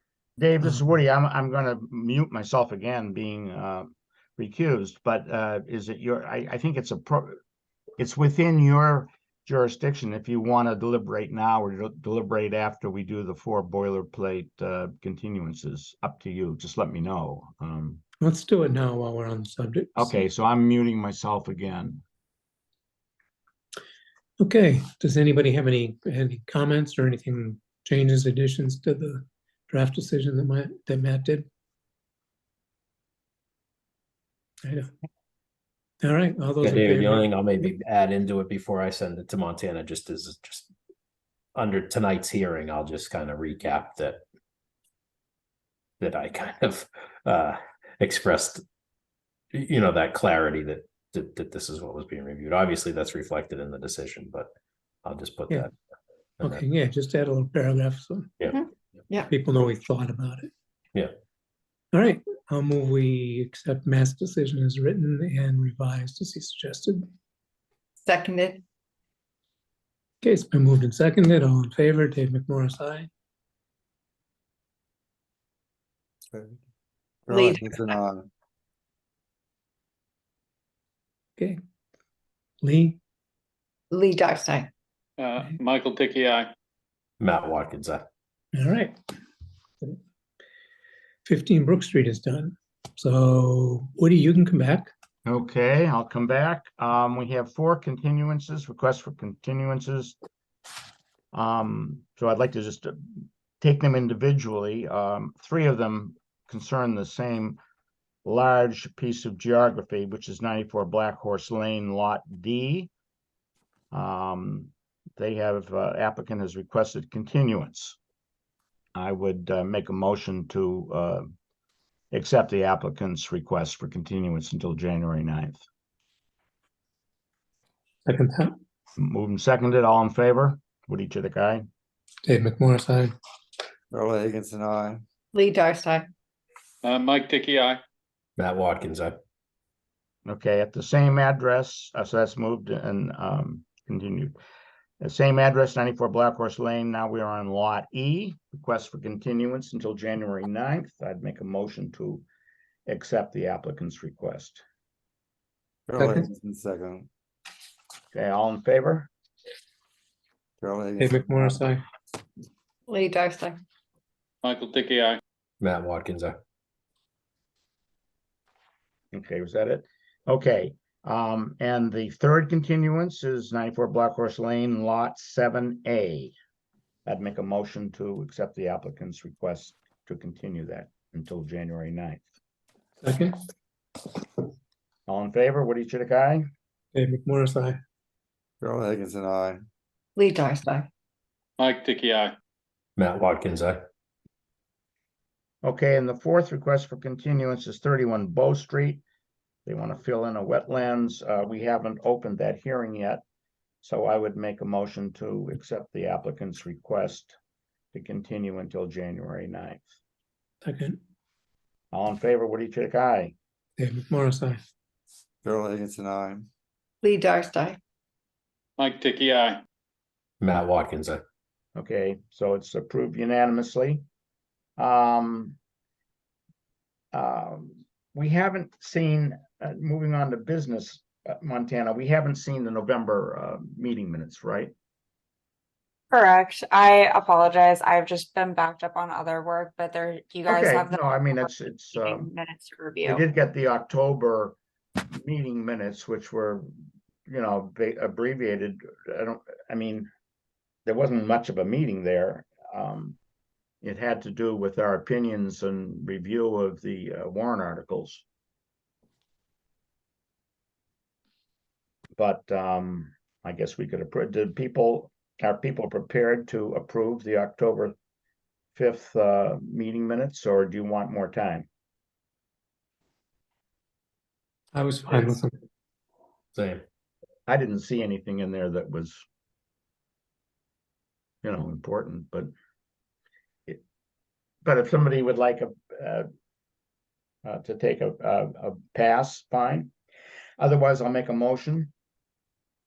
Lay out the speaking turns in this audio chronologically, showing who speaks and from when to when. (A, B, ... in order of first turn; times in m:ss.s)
0:00.4-0:07.4 A
0:08.0-0:18.0 A
0:18.2-0:20.2 B
0:20.0-0:22.0 A
0:24.4-0:31.5 B
0:34.6-0:34.9 B
0:36.0-0:37.3 B
0:36.6-0:40.7 C
0:41.6-0:44.2 C
0:46.0-0:48.6 C
0:49.5-0:54.5 C
0:55.0-0:55.7 C
0:56.4-0:58.4 B
0:58.5-0:59.3 D
0:59.3-1:00.5 B
1:01.9-1:07.1 B
1:08.0-1:08.6 D
1:10.2-1:13.1 B
1:16.3-1:16.6 E
1:17.3-1:18.3 E
1:17.3-1:17.8 D
1:22.6-1:23.0 B
1:23.9-1:24.7 D
1:25.2-1:26.5 F
1:27.2-1:28.0 C
1:28.6-1:29.0 B
1:31.2-1:34.9 B
1:35.3-1:40.2 A
1:41.3-1:47.6 A
1:48.2-1:52.9 A
1:53.9-1:58.0 A
1:59.0-2:01.3 A
2:02.1-2:05.6 A
2:08.1-2:08.6 B
2:09.0-2:11.7 A
2:12.2-2:13.1 B
2:13.9-2:15.0 E
2:15.3-2:16.1 D
2:16.8-2:17.8 F
2:18.4-2:19.2 C
2:20.2-2:24.4 A
2:25.0-2:32.3 A
2:32.9-2:34.6 A
2:35.9-2:37.1 E
2:36.0-2:36.3 B
2:38.1-2:39.1 A
2:40.6-2:41.7 E
2:41.0-2:41.8 B
2:42.9-2:43.6 D
2:44.4-2:45.2 F
2:45.6-2:46.4 C
2:49.1-2:56.3 A
2:57.1-3:02.3 A
3:03.0-3:03.3 B
3:05.1-3:06.5 A
3:07.0-3:07.8 B
3:08.6-3:09.6 E
3:10.2-3:10.9 D
3:11.6-3:12.4 F
3:13.0-3:13.8 C
3:15.6-3:19.0 A
3:19.7-3:23.2 A
3:23.8-3:27.4 A
3:27.9-3:29.9 A
3:30.6-3:31.0 B
3:31.9-3:33.4 A
3:33.8-3:34.6 B
3:35.4-3:36.5 E
3:37.0-3:37.8 D
3:38.8-3:39.6 F
3:40.4-3:41.2 C
3:41.8-3:44.0 A
3:44.8-3:45.6 A
3:47.1-3:54.7 A
3:56.1-4:03.2 G
4:00.5-4:02.3 A
4:03.1-4:04.6 A
4:05.1-4:06.7 A
4:07.3-4:10.1 A
4:10.9-4:13.2 A
4:13.8-4:18.2 A
4:22.2-4:28.0 A
4:28.8-4:31.7 A
4:34.7-4:35.5 B
4:36.6-4:36.8 C
4:37.5-4:39.2 A
4:41.4-4:42.5 A
4:44.6-4:46.3 A
4:47.4-4:49.9 A
4:50.6-4:51.9 A